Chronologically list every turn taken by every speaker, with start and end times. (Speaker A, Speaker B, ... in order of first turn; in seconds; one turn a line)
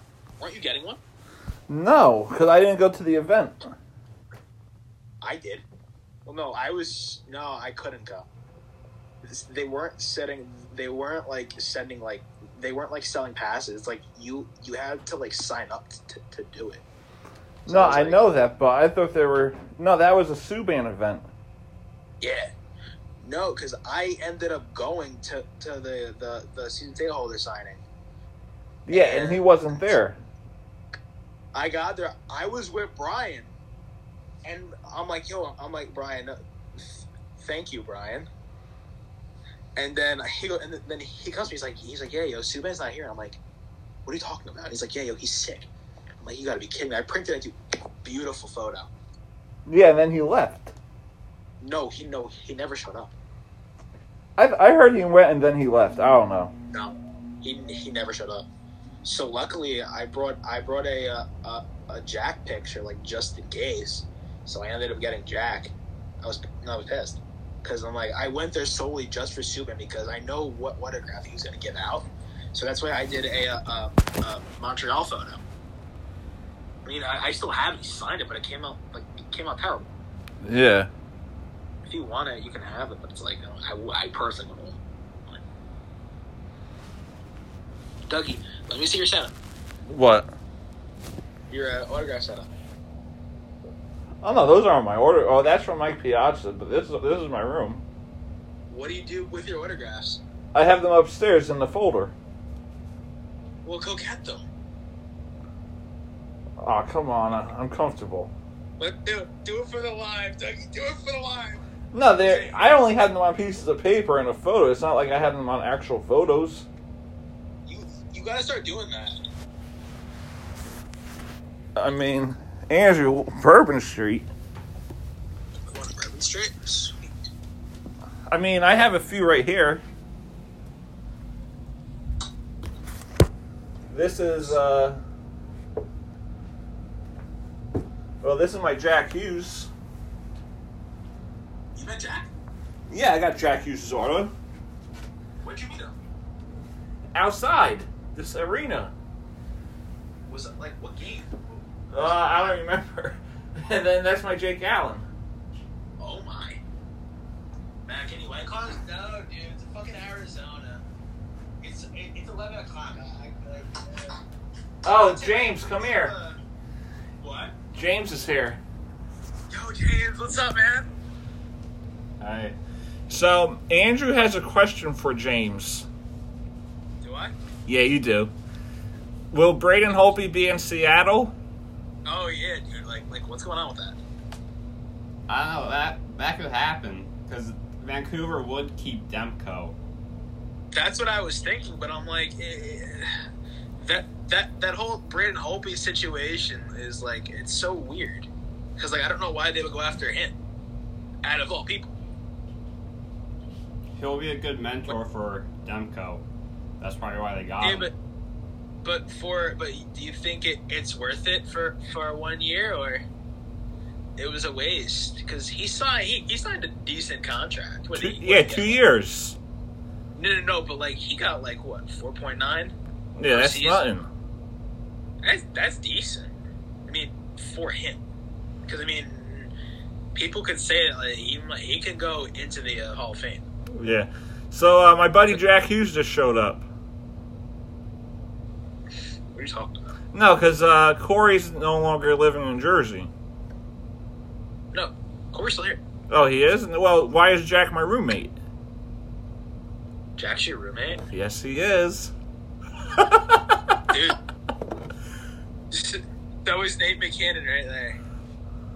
Speaker A: 0.4-1.0
Speaker B: 1.7-3.7
Speaker A: 5.2-5.6
Speaker A: 6.3-8.3
Speaker A: 9.2-16.8
Speaker B: 17.7-21.3
Speaker A: 17.7-18.3
Speaker A: 22.2-22.5
Speaker A: 23.2-27.8
Speaker B: 28.9-30.2
Speaker A: 28.9-30.0
Speaker A: 31.5-33.5
Speaker A: 34.4-38.3
Speaker A: 39.8-43.4
Speaker A: 44.0-45.7
Speaker A: 46.2-48.9
Speaker B: 49.7-50.7
Speaker A: 51.6-53.1
Speaker B: 54.4-56.5
Speaker A: 56.7-58.5
Speaker A: 59.0-75.4
Speaker A: 76.8-79.9
Speaker B: 80.4-80.9
Speaker A: 81.9-85.4
Speaker A: 88.1-89.3
Speaker B: 89.9-90.3
Speaker A: 91.5-92.5
Speaker B: 94.2-97.8
Speaker A: 98.7-100.2
Speaker B: 100.5-102.1
Speaker A: 103.6-104.5
Speaker B: 106.6-108.3
Speaker A: 108.8-111.6
Speaker B: 111.9-116.7
Speaker A: 112.2-112.6
Speaker A: 117.7-119.2
Speaker B: 121.8-124.3
Speaker A: 125.7-127.1
Speaker B: 128.3-129.8
Speaker B: 133.9-135.0
Speaker B: 138.2-139.7
Speaker A: 141.8-142.3
Speaker B: 142.9-144.3
Speaker A: 145.4-146.0
Speaker B: 147.1-148.9
Speaker A: 150.3-151.4
Speaker B: 151.9-155.1
Speaker A: 152.0-152.5
Speaker A: 156.0-156.6
Speaker A: 157.9-160.8
Speaker A: 161.6-164.2
Speaker B: 164.8-166.1
Speaker A: 164.8-166.4
Speaker A: 167.2-167.6
Speaker B: 167.7-168.6
Speaker A: 169.5-170.9
Speaker B: 172.2-172.6
Speaker B: 173.1-175.9
Speaker A: 177.0-177.3
Speaker B: 177.7-178.3
Speaker B: 179.3-181.3
Speaker A: 182.1-184.0
Speaker C: 185.3-189.7
Speaker A: 190.7-193.1
Speaker A: 193.8-200.3
Speaker A: 201.2-202.0
Speaker C: 204.0-206.2
Speaker C: 206.8-207.9
Speaker A: 207.6-207.9
Speaker A: 208.8-213.0
Speaker A: 214.2-218.8
Speaker B: 217.9-219.4
Speaker A: 220.2-222.8
Speaker B: 223.2-224.1
Speaker A: 223.3-223.8
Speaker A: 225.2-226.3
Speaker A: 226.9-228.0
Speaker A: 228.7-229.5
Speaker A: 230.1-233.4
Speaker B: 233.7-236.7
Speaker A: 239.3-240.0
Speaker B: 240.1-243.1
Speaker A: 244.7-245.8
Speaker B: 246.1-248.4
Speaker A: 250.2-251.0
Speaker B: 251.1-252.1
Speaker B: 252.9-253.8
Speaker A: 253.9-254.2
Speaker A: 255.7-258.0